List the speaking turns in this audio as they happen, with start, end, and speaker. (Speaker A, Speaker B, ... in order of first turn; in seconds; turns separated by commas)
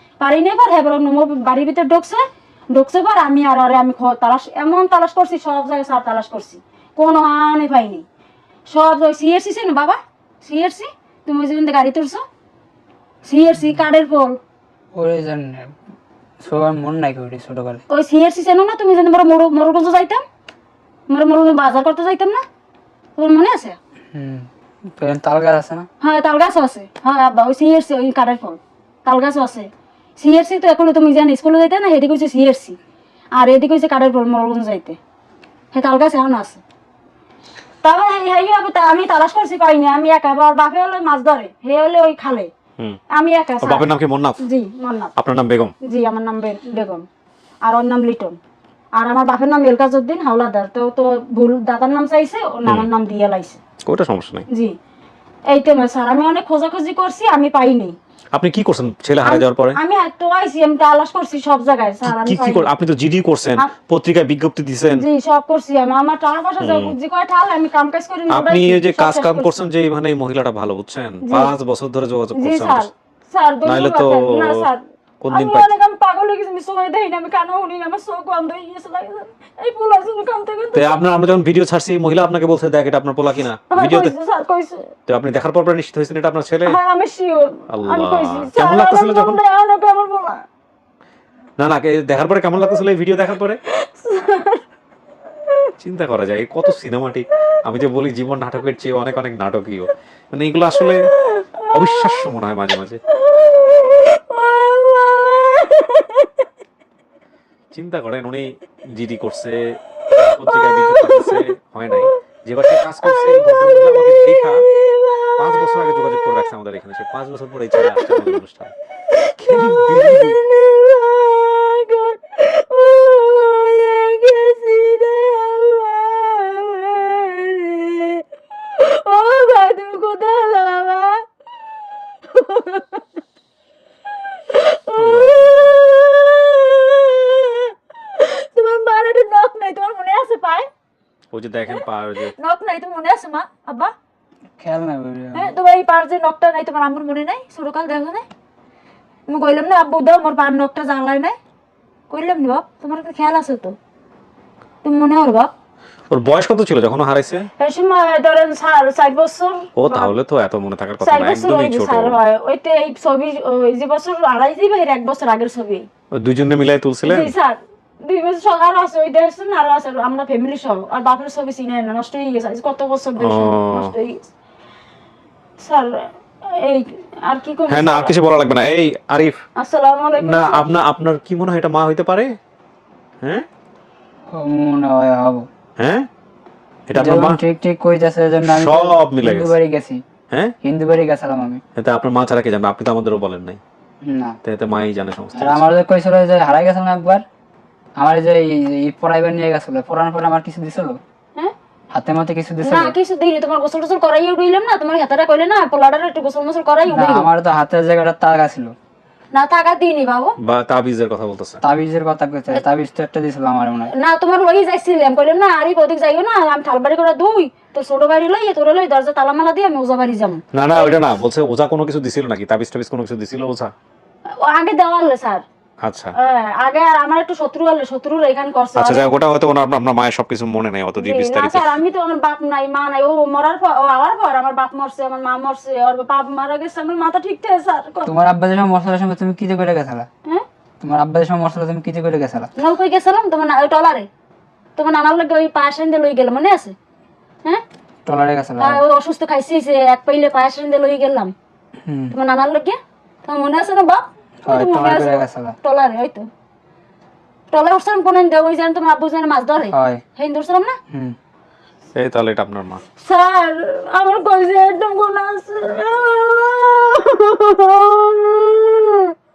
Speaker A: 0.2-8.0, Speaker A: 8.7-12.2, Speaker A: 13.2-14.4, Speaker B: 14.9-15.8, Speaker B: 16.4-17.8, Speaker A: 17.9-20.2, Speaker A: 21.1-22.4, Speaker A: 23.2-23.8, Speaker B: 24.1-25.9, Speaker A: 26.0-32.8, Speaker A: 33.3-35.0, Speaker A: 35.7-36.6, Speaker A: 37.8-42.5, Speaker A: 43.1-43.9, Speaker C: 43.6-44.4, Speaker A: 44.4-45.1, Speaker C: 45.2-45.8, Speaker A: 45.8-47.0, Speaker A: 47.6-48.4, Speaker A: 48.9-53.6, Speaker C: 53.8-54.5, Speaker A: 54.5-54.8, Speaker A: 55.5-58.0, Speaker C: 58.3-59.8, Speaker A: 59.2-62.6, Speaker C: 62.0-65.0, Speaker A: 64.9-69.5, Speaker C: 66.6-67.0, Speaker C: 68.3-72.9, Speaker A: 71.2-71.5, Speaker A: 72.3-80.9, Speaker C: 73.6-74.7, Speaker C: 75.2-75.7, Speaker C: 80.7-84.1, Speaker A: 83.7-84.9, Speaker C: 85.1-86.8, Speaker A: 86.7-90.4, Speaker C: 87.7-89.4, Speaker C: 91.6-93.6, Speaker A: 93.7-94.6, Speaker C: 95.8-101.1, Speaker A: 101.3-102.2, Speaker C: 101.7-103.0, Speaker A: 103.3-106.3, Speaker C: 107.7-114.7, Speaker A: 110.5-111.4, Speaker A: 113.0-116.3, Speaker C: 115.3-118.7, Speaker A: 117.8-118.2, Speaker A: 119.1-131.3, Speaker C: 119.3-120.4, Speaker A: 132.2-133.1, Speaker A: 134.3-140.7, Speaker C: 134.9-135.8, Speaker C: 141.3-142.3, Speaker A: 141.7-143.9, Speaker B: 144.6-145.5, Speaker A: 145.3-148.2, Speaker A: 149.3-151.4, Speaker A: 152.1-153.8, Speaker A: 154.8-155.5, Speaker C: 156.1-157.5, Speaker A: 157.6-160.1, Speaker C: 159.8-162.2, Speaker A: 161.0-165.9, Speaker C: 166.1-167.3, Speaker A: 167.0-174.3, Speaker C: 173.2-173.9, Speaker A: 175.6-178.1, Speaker C: 177.7-179.4, Speaker A: 179.6-180.7, Speaker C: 180.2-182.4, Speaker B: 184.3-185.5, Speaker C: 185.8-186.1, Speaker C: 186.9-187.4, Speaker B: 186.9-190.0, Speaker C: 188.5-189.5, Speaker B: 190.6-191.6, Speaker C: 191.8-193.6, Speaker B: 194.0-194.4, Speaker C: 194.4-195.6, Speaker B: 195.3-197.2, Speaker B: 198.0-201.0, Speaker B: 201.9-202.9, Speaker A: 202.6-207.3, Speaker B: 206.9-208.7, Speaker A: 209.3-210.3, Speaker C: 210.4-211.6, Speaker B: 211.6-213.9, Speaker A: 213.9-220.4, Speaker C: 220.5-223.7, Speaker A: 224.3-225.4, Speaker C: 225.8-226.1, Speaker A: 226.2-229.1, Speaker C: 228.8-231.8, Speaker A: 231.0-238.1, Speaker B: 238.0-240.1, Speaker B: 240.8-242.5, Speaker A: 242.6-244.1, Speaker A: 244.8-246.8, Speaker B: 248.0-248.8, Speaker A: 248.6-251.3, Speaker B: 251.8-252.1, Speaker A: 252.1-256.3, Speaker B: 254.4-255.6, Speaker A: 257.5-260.8, Speaker B: 259.7-260.0, Speaker B: 260.9-261.1, Speaker C: 261.9-262.8, Speaker A: 263.0-269.1